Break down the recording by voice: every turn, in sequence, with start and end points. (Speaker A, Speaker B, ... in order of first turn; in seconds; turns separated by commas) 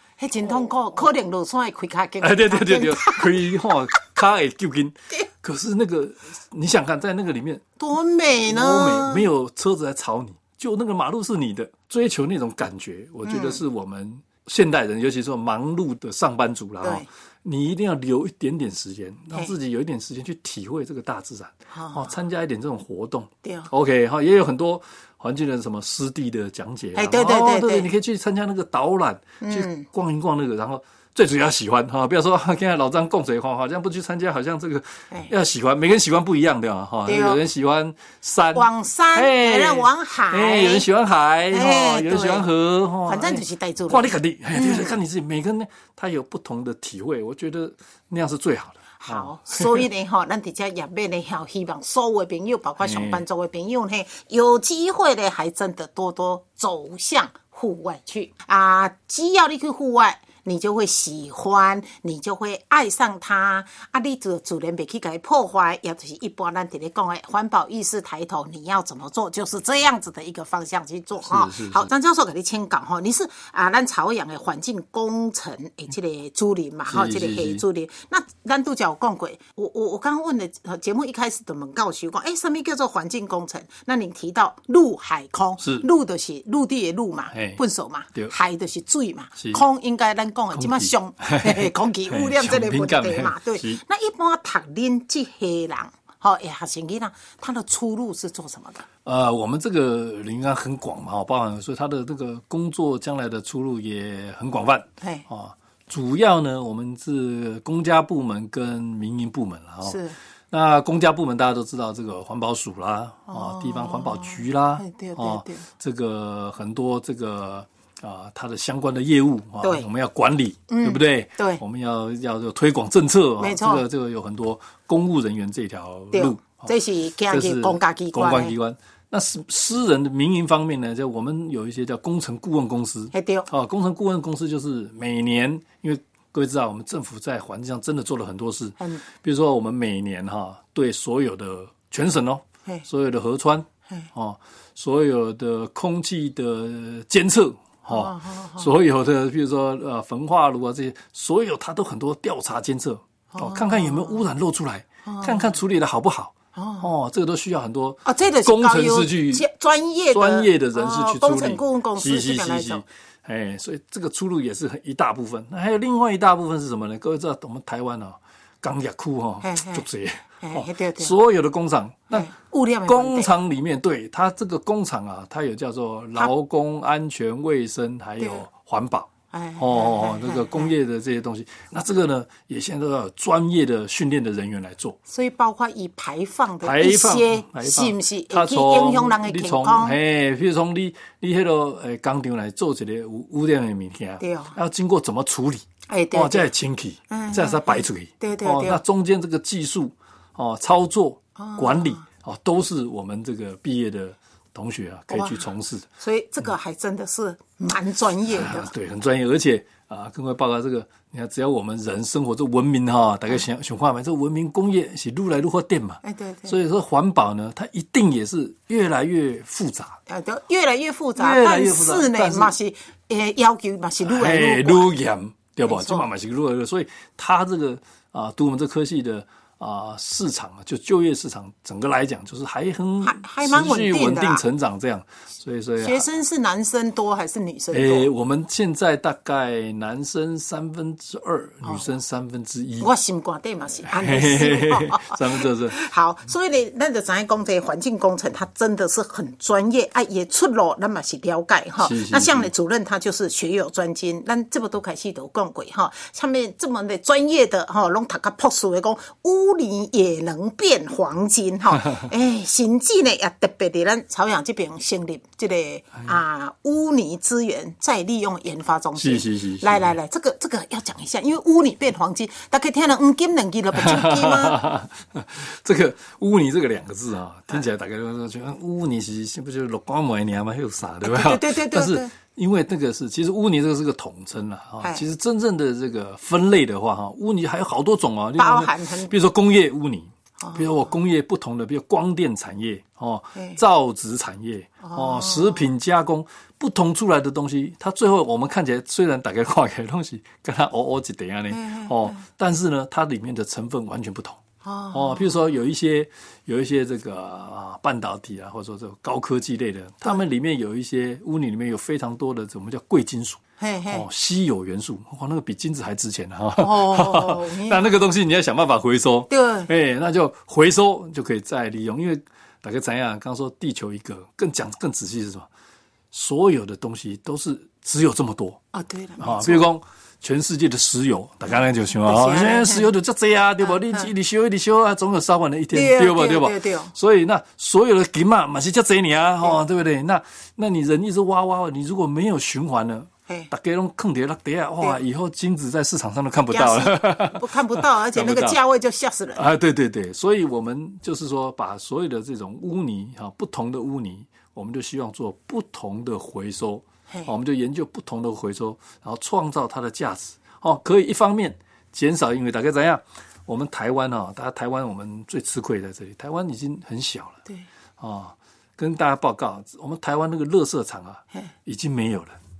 Speaker A: 0.2-4.0, Speaker B: 2.2-7.6, Speaker A: 7.8-9.2, Speaker B: 8.5-49.9, Speaker A: 13.2-13.6, Speaker A: 21.7-22.1, Speaker A: 23.4-23.7, Speaker A: 26.9-27.9, Speaker A: 29.4-29.9, Speaker A: 37.1-37.4, Speaker A: 38.5-40.9, Speaker A: 41.5-42.5, Speaker A: 43.0-45.0, Speaker A: 49.0-98.8, Speaker B: 52.8-53.2, Speaker B: 71.2-71.9, Speaker B: 76.9-77.6, Speaker B: 87.3-87.6, Speaker B: 90.5-93.8, Speaker B: 99.0-126.7, Speaker A: 109.8-110.2, Speaker A: 113.3-115.7, Speaker A: 120.7-121.6, Speaker A: 123.4-123.8, Speaker A: 126.1-128.5, Speaker B: 127.3-159.4, Speaker A: 133.1-133.5, Speaker A: 147.9-148.7, Speaker A: 153.3-154.2, Speaker A: 155.1-155.6, Speaker A: 156.6-156.9, Speaker A: 158.1-162.8, Speaker B: 160.1-172.3, Speaker A: 169.4-169.9, Speaker A: 170.4-171.1, Speaker A: 172.1-173.3, Speaker B: 172.9-185.0, Speaker A: 179.3-180.7, Speaker A: 185.1-190.0, Speaker B: 186.6-205.9, Speaker A: 194.2-194.6, Speaker A: 195.9-196.5, Speaker A: 197.1-198.8, Speaker A: 201.4-202.1, Speaker A: 205.1-205.4, Speaker A: 206.0-208.7, Speaker B: 208.3-220.0, Speaker A: 216.0-216.6, Speaker A: 220.1-224.9, Speaker B: 221.2-222.5, Speaker B: 224.0-236.1, Speaker A: 225.7-226.1, Speaker A: 233.0-234.4, Speaker A: 235.8-238.1, Speaker B: 237.7-242.9, Speaker A: 242.8-274.6, Speaker B: 243.9-245.8, Speaker B: 251.8-252.5, Speaker B: 269.0-269.9, Speaker B: 273.7-304.4, Speaker A: 281.0-282.1, Speaker A: 288.4-289.1, Speaker A: 290.4-290.9, Speaker A: 294.8-295.7, Speaker A: 301.5-302.2, Speaker A: 304.6-305.4, Speaker B: 304.9-325.5, Speaker A: 313.6-314.1, Speaker A: 316.6-318.0, Speaker A: 319.3-319.7, Speaker B: 326.1-328.6, Speaker A: 328.7-329.7, Speaker B: 329.2-348.6, Speaker A: 331.6-332.9, Speaker A: 333.7-334.1, Speaker A: 335.7-336.9, Speaker A: 346.5-349.4, Speaker B: 349.4-367.4, Speaker B: 368.0-372.4